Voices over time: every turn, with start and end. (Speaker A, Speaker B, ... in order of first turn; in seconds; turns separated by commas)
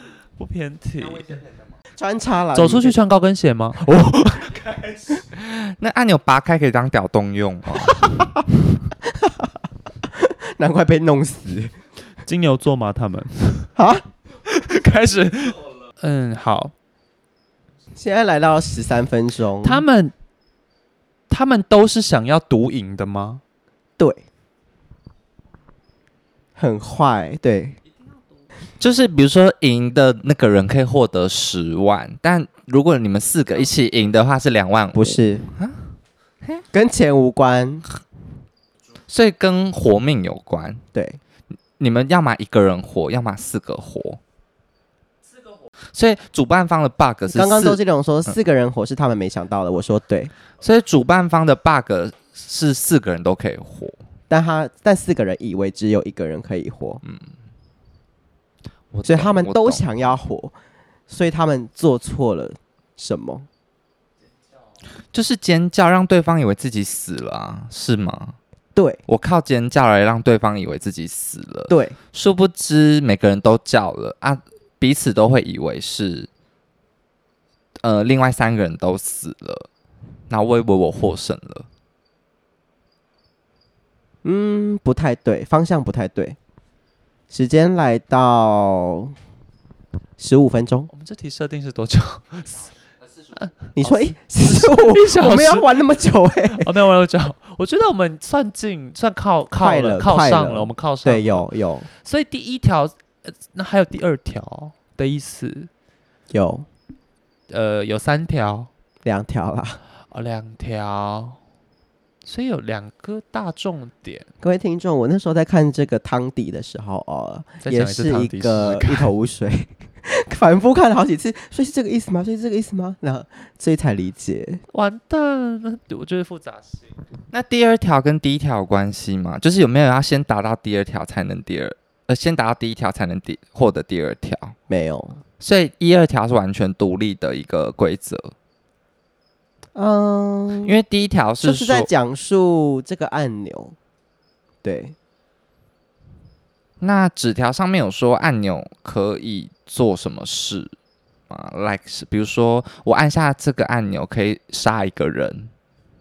Speaker A: 0.4-1.4, Speaker B: 1.3-1.7, Speaker C: 1.9-3.0, Speaker A: 2.5-5.2, Speaker B: 5.3-8.2, Speaker C: 9.0-9.5, Speaker C: 10.1-11.7, Speaker A: 12.2-13.7, Speaker C: 13.8-14.0, Speaker A: 14.5-16.7, Speaker C: 17.9-19.8, Speaker A: 19.6-20.1, Speaker A: 21.3-23.4, Speaker C: 26.6-27.8, Speaker B: 28.8-35.9, Speaker C: 34.9-35.5, Speaker C: 36.7-37.8, Speaker B: 39.1-40.8, Speaker C: 40.9-41.2, Speaker B: 41.8-44.2, Speaker B: 45.9-48.4, Speaker C: 47.3-50.3, Speaker B: 50.6-54.0, Speaker C: 54.3-57.0, Speaker B: 58.9-59.9, Speaker C: 59.0-60.5, Speaker C: 61.1-63.5, Speaker B: 65.1-68.3, Speaker C: 68.7-69.0, Speaker B: 69.1-76.3, Speaker C: 71.7-72.0, Speaker B: 77.8-79.7, Speaker B: 80.3-81.7, Speaker C: 84.2-86.4, Speaker C: 87.3-89.1, Speaker C: 90.2-90.9, Speaker A: 90.9-92.7, Speaker A: 93.3-95.8, Speaker C: 93.7-96.7, Speaker A: 96.5-105.7, Speaker C: 99.6-101.9, Speaker C: 106.3-106.7, Speaker A: 107.5-108.7, Speaker C: 109.0-109.8, Speaker A: 110.1-111.4, Speaker A: 112.2-114.3, Speaker C: 114.4-124.6, Speaker A: 117.6-119.1, Speaker A: 124.7-126.9, Speaker B: 127.3-134.6, Speaker C: 134.7-135.2, Speaker B: 135.4-138.3, Speaker C: 139.7-140.7, Speaker B: 140.6-141.9, Speaker C: 141.4-143.8, Speaker C: 144.6-144.9, Speaker B: 146.8-150.7, Speaker B: 151.3-155.5